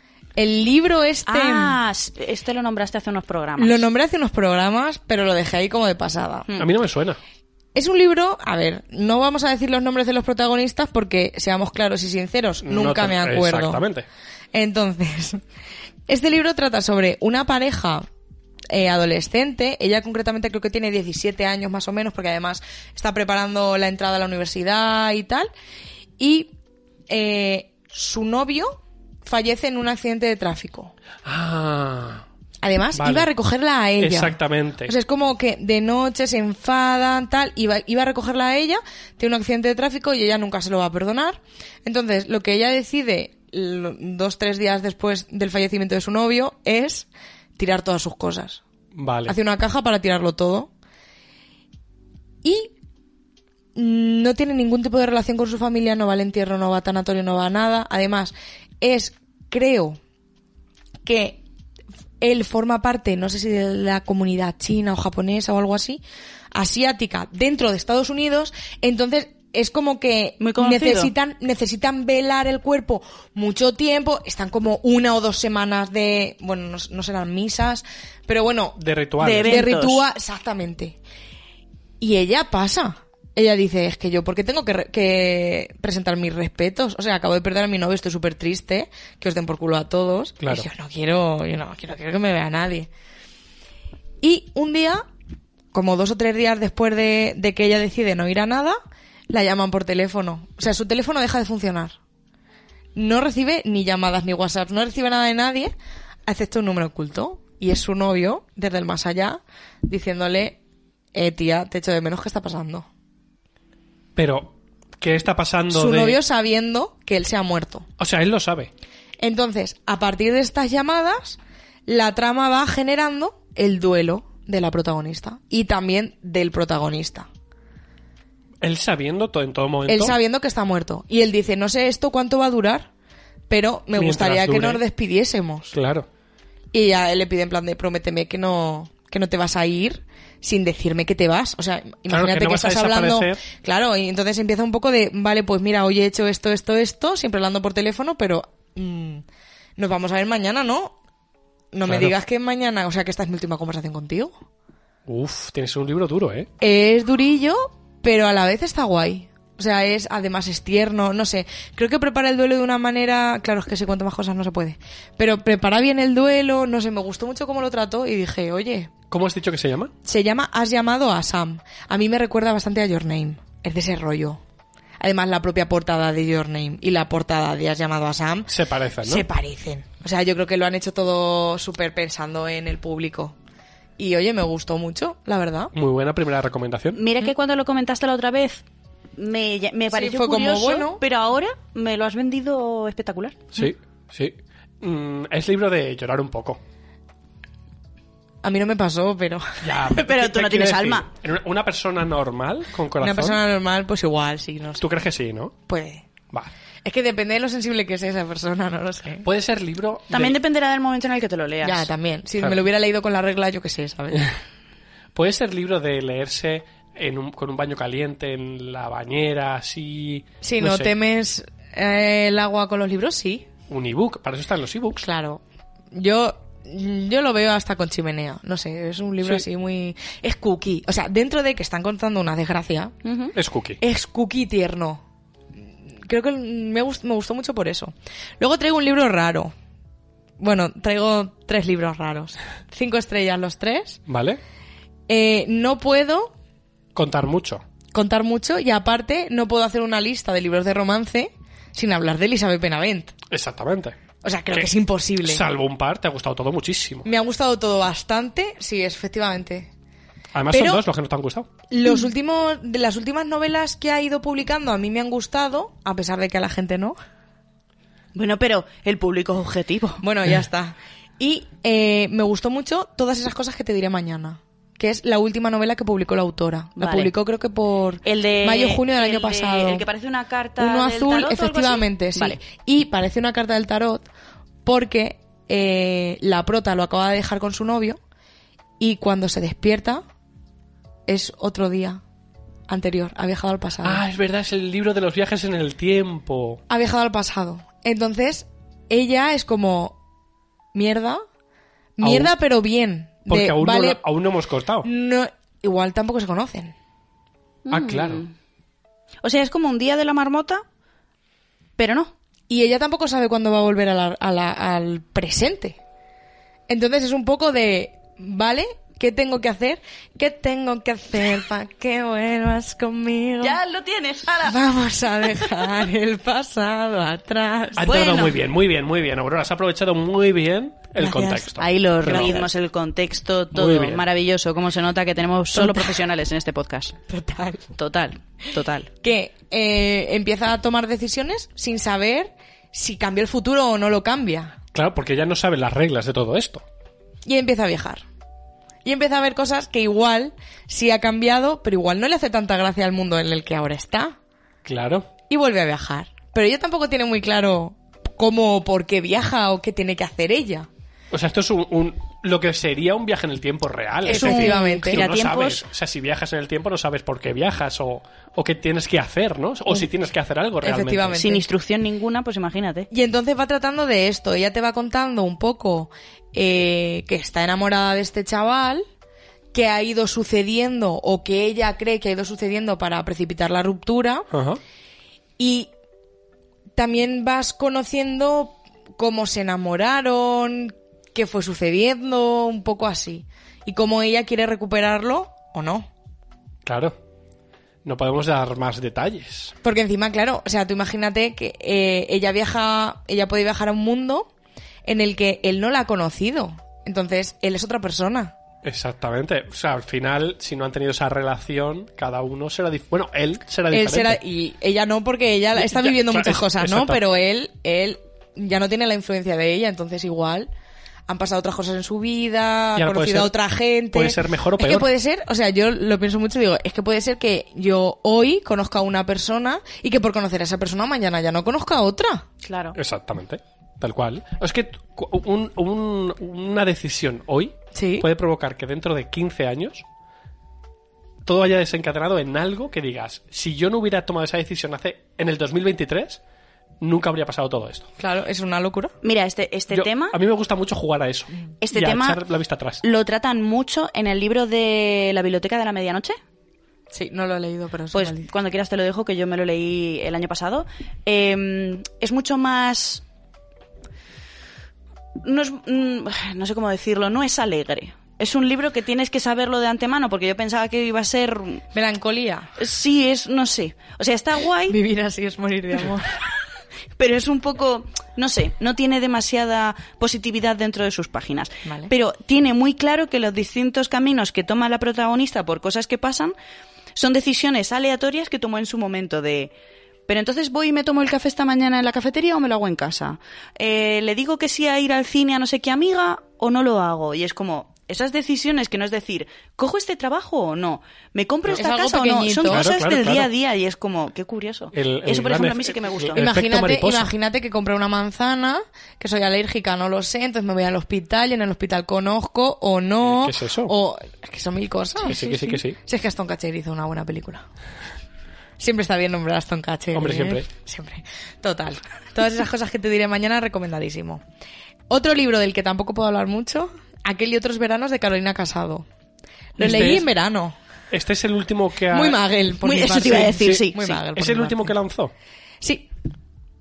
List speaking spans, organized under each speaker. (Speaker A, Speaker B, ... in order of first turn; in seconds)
Speaker A: 0.4-1.8, 3.6-6.5, 7.8-13.8, 14.5-15.4, 16.1-18.1, 18.7-25.5, 26.2-26.5, 27.1-30.9, 32.6-48.6, 49.2-50.7, 52.4-52.7, 53.8-60.0, 61.0-61.4, 62.2-66.0, 66.5-78.8, 79.4-81.0, 82.0-92.9, 94.2-95.0, 95.7-98.8, 99.3-102.0, 102.9-105.7, 106.2-110.6, 111.1-112.9, 115.7-117.9, 119.2-127.3, 129.9-132.9, 133.5-135.7, 136.7-149.2, 149.8-150.9, 151.7-154.3, 156.6-168.9, 170.0-174.4, 175.0-178.5, 179.0-183.3, 184.0-185.7, 189.9-191.0, 198.4-199.7, 203.0-204.8, 205.7-206.1, 206.8-209.3, 211.6-214.3, 220.4-223.5, 225.0-232.9, 233.8-235.0, 236.0-239.5, 240.4-244.0, 245.1-246.3, 247.9-253.1, 254.2-255.4, 257.1-259.7, 260.5-260.8, 261.7-266.9, 270.0-279.8, 280.6-284.1, 284.6-288.0, 288.8-290.0, 291.1-292.0, 292.7-294.0, 296.7-299.9, 300.7-301.2, 302.0-304.0, 304.8-306.7, 312.5-315.8, 316.7-323.6, 324.4-327.9, 331.0-331.5, 332.0-332.5, 335.5-336.0, 337.1-337.7, 339.0-344.6, 347.2-348.0, 348.8-354.2, 355.3-360.7, 364.1-365.0, 370.6-371.4, 372.9-378.8, 379.5-384.3, 385.4-385.7, 386.8-395.9, 399.6-404.3, 404.9-408.3, 413.7-420.5, 421.1-432.3, 437.7-438.1, 448.0-448.9, 456.9-458.3, 471.7-472.5, 474.7-476.1, 481.6-481.9, 501.6-502.7, 506.2-517.4, 518.6-524.2, 524.9-528.9, 529.6-530.6, 531.9-534.7, 535.6-535.9
Speaker B: 1.3-3.8, 70.4-71.1, 79.2-80.0, 186.9-188.6, 189.2-193.5, 199.8-201.1, 210.1-211.9, 233.1-233.3, 268.1-270.0, 276.8-277.1, 278.1-282.4, 307.7-308.3, 309.2-310.6, 311.8-312.1, 323.4-324.6, 325.2-325.8, 327.8-328.4, 331.6-336.9, 337.8-338.9, 364.1-365.6, 371.2-372.9, 432.4-432.7, 449.0-450.2, 451.6-452.2, 452.8-456.2, 457.9-463.0, 465.2-471.6, 472.6-474.8, 477.0-486.3, 486.9-489.5, 490.1-506.2, 532.6-534.0
Speaker C: 6.6-7.2, 12.6-14.1, 31.2-32.2, 33.0-33.3, 34.0-34.9, 48.9-49.4, 78.8-79.6, 90.4-90.7, 114.2-116.2, 118.0-118.7, 128.6-130.2, 133.9-134.8, 135.7-136.1, 142.1-143.4, 151.8-152.1, 155.1-156.5, 169.1-169.9, 178.5-179.2, 185.7-187.0, 193.5-196.6, 199.6-203.4, 204.8-205.6, 209.2-210.4, 215.1-220.9, 223.7-225.0, 233.3-233.8, 244.1-244.4, 246.9-247.6, 253.3-253.9, 255.2-257.1, 260.3-261.5, 293.8-296.6, 302.0-302.3, 303.3-304.9, 307.7-308.2, 327.8-332.5, 333.5-334.1, 344.7-346.6, 354.6-355.1, 361.1-371.2, 384.3-384.6, 396.6-396.9, 397.8-399.6, 408.6-414.2, 415.6-417.0, 422.8-423.3, 423.9-424.9, 432.7-439.8, 441.2-446.2, 446.8-447.9, 449.7-452.8, 502.5-503.3, 504.7-507.1, 513.0-513.7, 515.0-515.8, 519.9-520.5, 529.6-530.1, 530.9-532.2, 533.4-535.1